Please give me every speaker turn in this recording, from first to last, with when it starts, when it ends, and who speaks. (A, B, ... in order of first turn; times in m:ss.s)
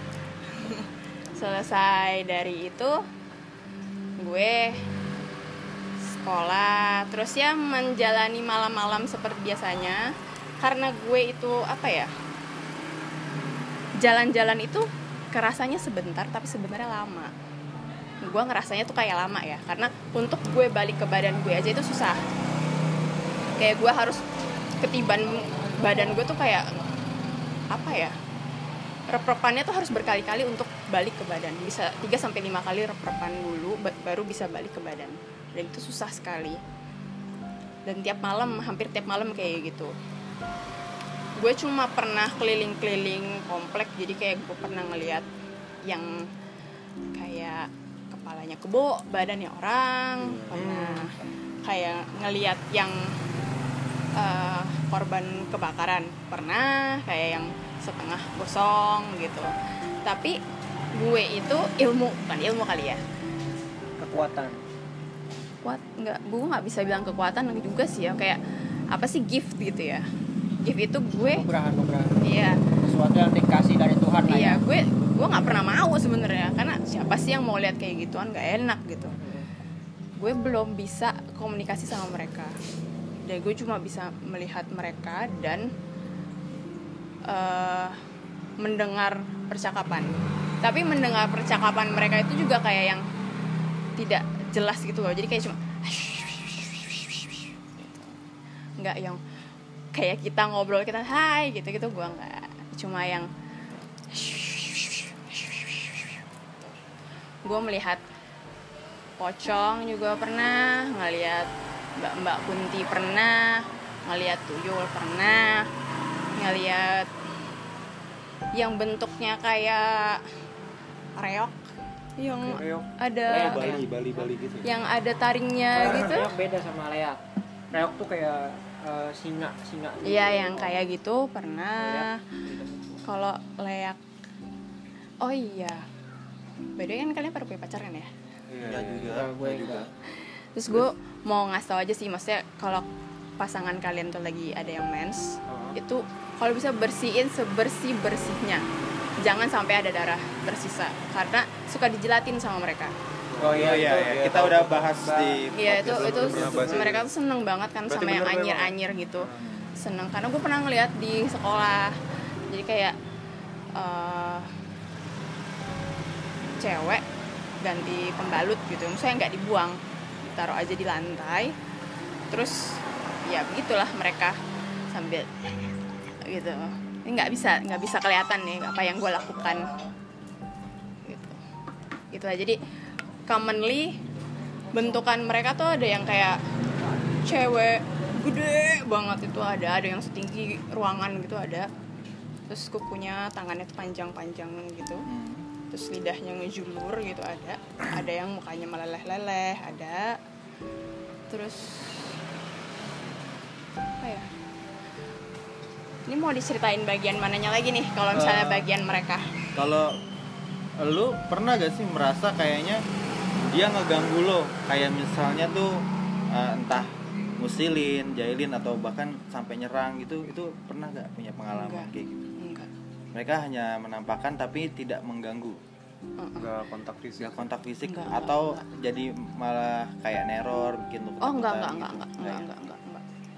0:00.5-0:03.0 A
0:04.2-0:04.8 A
0:06.1-0:12.1 A
0:14.0-0:17.3 A
0:18.2-0:22.2 A
0:23.6-0:24.2 A
0:24.8-0:26.7 A
0:27.7-0:28.2 A
0:29.1-0:36.6 A
0:37.9-0:39.9 A
0:41.4-0:45.3 A
0:45.9-0:46.2 A
0:47.2-0:51.1 A
0:50.3-0:50.6 B
0:50.5-0:51.1 C
0:51.6-0:53.1 A
0:54.2-0:59.5 A
1:00.0-1:00.4 A
1:01.0-1:03.0 A
1:04.0-1:04.6 D
1:05.6-1:08.4 A
1:08.9-1:10.0 A
1:10.6-1:11.5 A
1:11.4-1:12.2 D
1:12.2-1:12.6 A
1:12.8-1:14.6 D
1:14.3-1:19.2 A
1:19.2-1:19.5 D
1:20.2-1:22.6 A
1:23.3-1:25.7 A
1:27.3-1:28.0 A
1:28.6-1:33.0 A
1:34.0-1:38.2 A
1:38.8-1:39.2 A
1:40.0-1:43.3 A
1:44.1-1:46.7 A
1:47.4-1:48.0 A
1:49.2-1:55.7 A
1:56.4-1:57.1 A
1:58.6-2:00.2 A
2:01.2-2:01.6 A
2:02.2-2:03.8 A
2:02.4-2:04.7 B
2:03.3-2:04.3 D
2:04.6-2:06.3 A
2:05.8-2:07.2 D
2:07.7-2:10.8 D
2:10.0-2:12.2 A
2:11.8-2:13.0 D
2:13.0-2:14.0 A
2:15.2-2:15.9 A
2:16.8-2:18.1 A
2:18.5-2:19.9 B
2:18.6-2:19.3 C
2:19.1-2:19.9 D
2:20.6-2:22.8 A
2:23.4-2:28.6 A
2:25.5-2:25.8 B
2:29.2-2:32.9 A
2:33.3-2:34.9 B
2:33.4-2:35.4 D
2:33.6-2:37.0 C
2:35.6-2:42.0 A
2:35.7-2:37.1 B
2:36.3-2:36.8 D
2:37.9-2:38.8 B
2:39.3-2:39.7 C
2:42.5-2:43.0 A
2:43.8-2:44.5 A
2:46.6-2:47.0 A
2:47.6-2:51.5 A
2:52.3-2:54.4 A
2:54.9-2:55.3 A
2:56.3-2:59.7 A
3:01.0-3:01.4 A
3:02.1-3:02.6 A
3:03.3-3:04.0 A
3:04.7-3:06.4 A
3:07.2-3:11.7 A
3:12.5-3:15.1 A
3:15.1-3:15.5 C
3:15.7-3:20.2 A
3:21.3-3:22.1 A
3:24.0-3:24.3 A
3:26.1-3:29.3 A
3:28.1-3:28.7 C
3:29.6-3:29.9 C
3:30.8-3:32.8 C
3:33.5-3:42.3 C
3:41.5-3:42.7 A
3:43.1-3:45.6 C
3:46.2-3:46.5 A
3:46.4-3:47.5 B
3:47.2-3:52.5 C
3:47.8-3:48.6 A
3:51.2-3:53.0 A